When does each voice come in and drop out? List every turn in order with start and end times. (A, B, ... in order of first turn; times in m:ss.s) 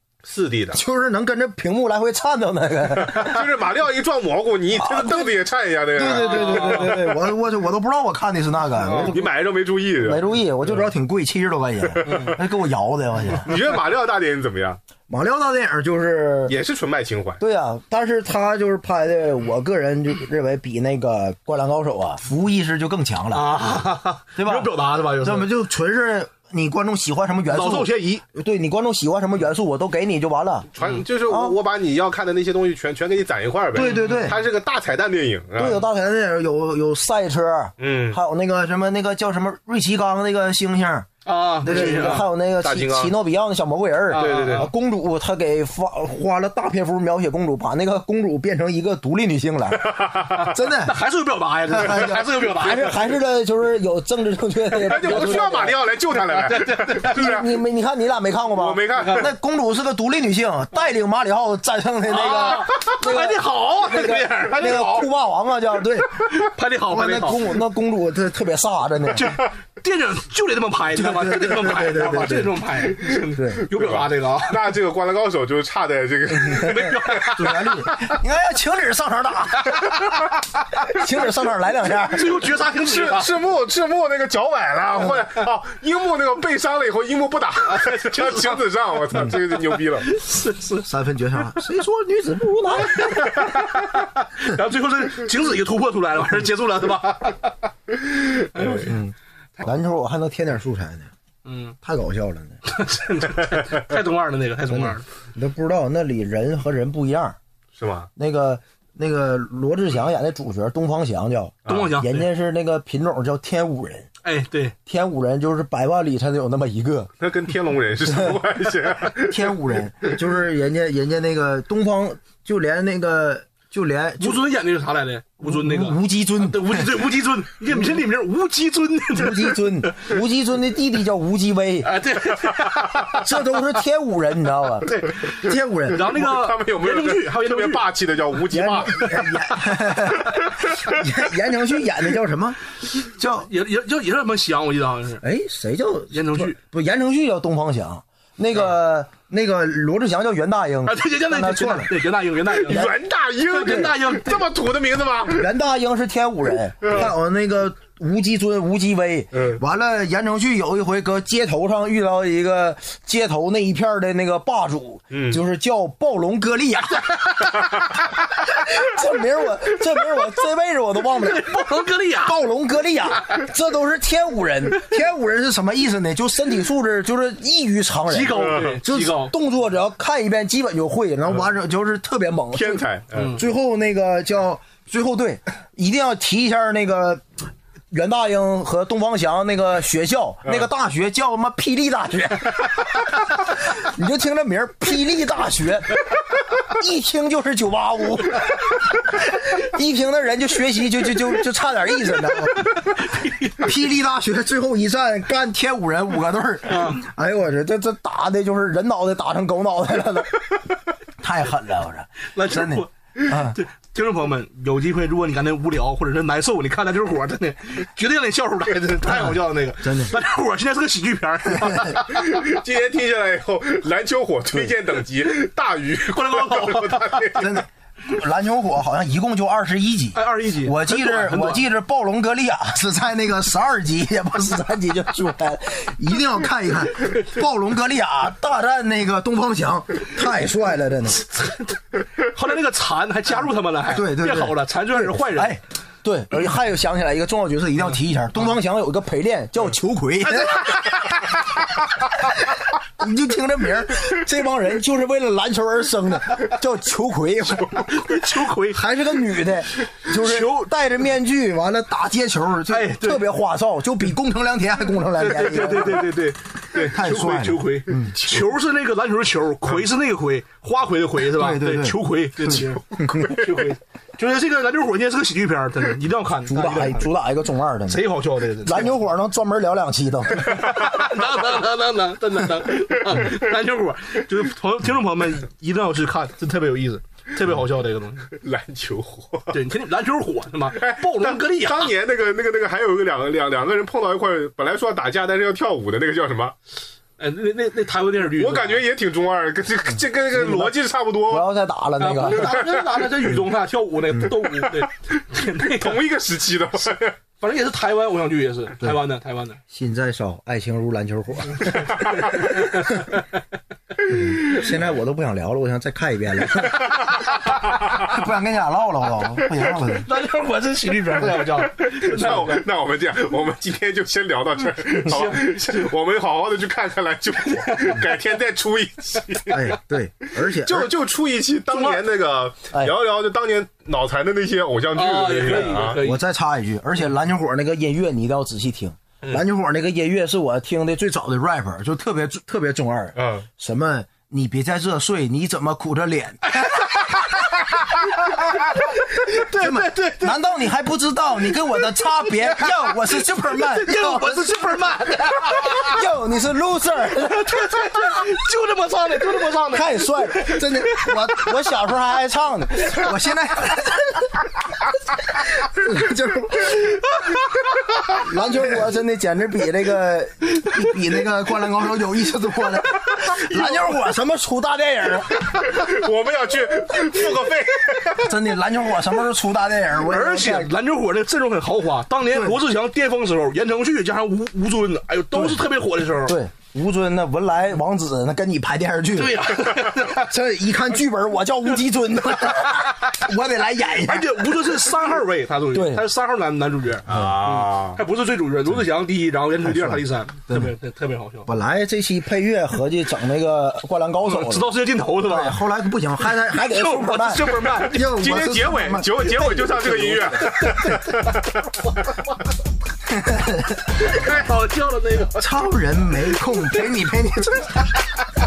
0:00.2-0:00.8 A
0:00.7-0:03.5 B
0:03.0-0:07.1 A
0:04.7-0:05.4 B
0:05.9-0:09.3 B
0:06.1-0:07.0 C
0:08.8-0:09.1 C
0:09.1-0:10.3 A
0:10.0-0:13.5 B
0:11.8-0:12.3 A
0:12.0-0:12.4 C
0:13.4-0:14.8 A
0:15.1-0:16.6 B
0:16.5-0:17.4 A
0:17.4-0:23.8 B
0:23.3-0:25.5 C
0:24.4-0:30.7 B
0:27.5-0:28.2 C
0:30.8-0:35.8 A
0:30.8-0:31.0 C
0:31.3-0:31.6 B
0:33.7-0:34.4 B
0:33.8-0:34.4 C
0:35.6-0:41.1 B
0:37.8-0:38.2 A
0:41.2-0:42.3 C
0:41.6-0:51.0 B
0:41.7-0:43.1 A
0:44.1-0:44.7 C
0:44.1-0:44.7 A
0:49.8-0:50.5 A
0:50.3-0:53.0 C
0:51.7-0:55.8 B
0:54.8-0:57.5 A
0:54.9-0:57.3 C
0:57.1-1:06.3 B
0:58.6-0:59.3 A
0:59.0-0:59.3 C
1:02.1-1:05.1 C
1:04.5-1:05.1 A
1:06.3-1:07.6 C
1:06.9-1:09.3 B
1:09.1-1:14.7 C
1:10.9-1:12.6 B
1:13.4-1:13.7 B
1:13.7-1:17.7 A
1:16.5-1:17.8 C
1:17.3-1:20.2 B
1:20.8-1:22.4 B
1:22.0-1:23.3 C
1:22.8-1:30.1 A
1:27.6-1:28.6 C
1:30.0-1:30.9 C
1:30.8-1:33.7 B
1:33.0-1:37.6 C
1:38.4-1:39.0 C
1:38.8-1:41.1 B
1:41.4-1:41.8 C
1:41.8-1:42.6 B
1:42.6-1:45.1 C
1:44.7-1:47.4 B
1:47.8-1:48.1 A
1:48.2-1:54.1 B
1:51.6-1:52.0 A
1:51.7-1:52.3 C
1:54.2-1:54.8 C
1:54.9-1:57.1 B
1:57.2-2:00.1 A
1:58.0-1:58.4 B
1:59.2-2:04.5 B
2:04.2-2:09.9 C
2:05.4-2:07.0 B
2:09.1-2:12.0 B
2:11.8-2:13.2 C
2:13.1-2:16.1 B
2:14.8-2:17.9 C
2:16.0-2:19.1 A
2:18.5-2:23.5 B
2:19.0-2:19.3 C
2:23.4-2:25.2 C
2:25.2-2:32.0 B
2:26.1-2:26.6 C
2:30.9-2:32.9 C
2:32.6-2:35.5 A
2:32.7-2:33.0 B
2:33.5-2:34.5 C
2:33.5-2:33.9 B
2:35.3-2:51.6 B
2:36.8-2:37.1 A
2:39.3-2:39.6 A
2:45.1-2:45.4 A
2:47.6-2:47.9 A
2:51.2-2:52.4 C
2:52.2-3:07.3 B
2:58.1-2:59.4 C
2:58.3-2:58.8 A
3:02.5-3:03.4 A
3:03.1-3:03.4 C
3:07.9-3:16.0 B
3:16.6-3:23.1 B
3:22.5-3:23.7 C
3:23.6-3:30.6 B
3:26.7-3:27.0 C
3:31.2-3:33.6 B
3:32.2-3:42.2 C
3:39.1-3:40.2 B
3:42.0-3:47.6 A
3:46.1-3:47.3 C
3:47.4-4:01.2 B
3:50.2-3:51.7 C
4:01.2-4:05.6 C
4:03.9-4:11.3 B
4:10.3-4:10.9 C
4:12.0-4:17.9 B
4:17.7-4:18.8 C
4:18.7-4:26.2 B
4:20.1-4:20.7 C
4:22.7-4:23.3 C
4:25.2-4:37.1 C
4:26.8-4:28.3 B
4:31.3-4:33.4 B
4:36.5-4:38.1 B
4:37.9-4:39.0 C
4:38.6-4:40.9 B
4:40.4-4:48.3 C
4:48.3-4:49.5 A
4:49.5-4:51.9 C
4:50.7-4:56.6 A
4:57.2-4:58.8 C
4:58.3-5:01.5 A
5:00.3-5:00.8 B
5:01.3-5:02.6 B
5:02.0-5:06.0 C
5:02.5-5:02.8 A
5:04.5-5:07.2 A
5:07.4-5:09.6 C
5:09.7-5:13.1 B
5:11.6-5:13.2 C
5:14.1-5:17.2 B
5:18.0-5:20.1 B
5:19.9-5:22.7 C
5:21.4-5:29.7 A
5:25.0-5:25.9 C
5:27.4-5:28.2 C
5:29.5-5:30.9 B
5:30.4-5:36.0 A
5:31.7-5:32.0 C
5:34.9-5:36.2 C
5:36.0-5:47.1 B
5:43.2-5:43.5 A
5:46.5-5:47.5 C
5:48.2-5:50.5 C
5:49.3-5:54.6 B
5:51.6-5:56.0 C
5:55.6-5:57.7 B
5:57.2-6:01.5 C
5:59.7-6:07.0 B
6:08.0-6:15.6 B
6:13.2-6:13.9 C
6:15.5-6:18.3 A
6:18.2-6:20.7 B
6:20.0-6:26.4 C
6:22.3-6:22.6 B
6:25.3-6:25.6 B
6:26.3-6:34.7 B
6:29.2-6:30.3 C
6:34.0-6:41.5 C
6:35.7-6:36.0 B
6:37.1-6:38.0 A
6:37.1-6:37.4 B
6:39.6-6:40.7 B
6:41.5-6:44.7 B
6:44.2-6:45.6 C
6:45.2-6:50.7 B
6:46.2-6:48.1 C
6:48.0-6:51.5 A
6:49.4-6:51.3 C
6:51.8-6:52.1 C
6:53.1-6:54.1 B
6:54.1-6:55.5 C
6:55.4-6:57.9 B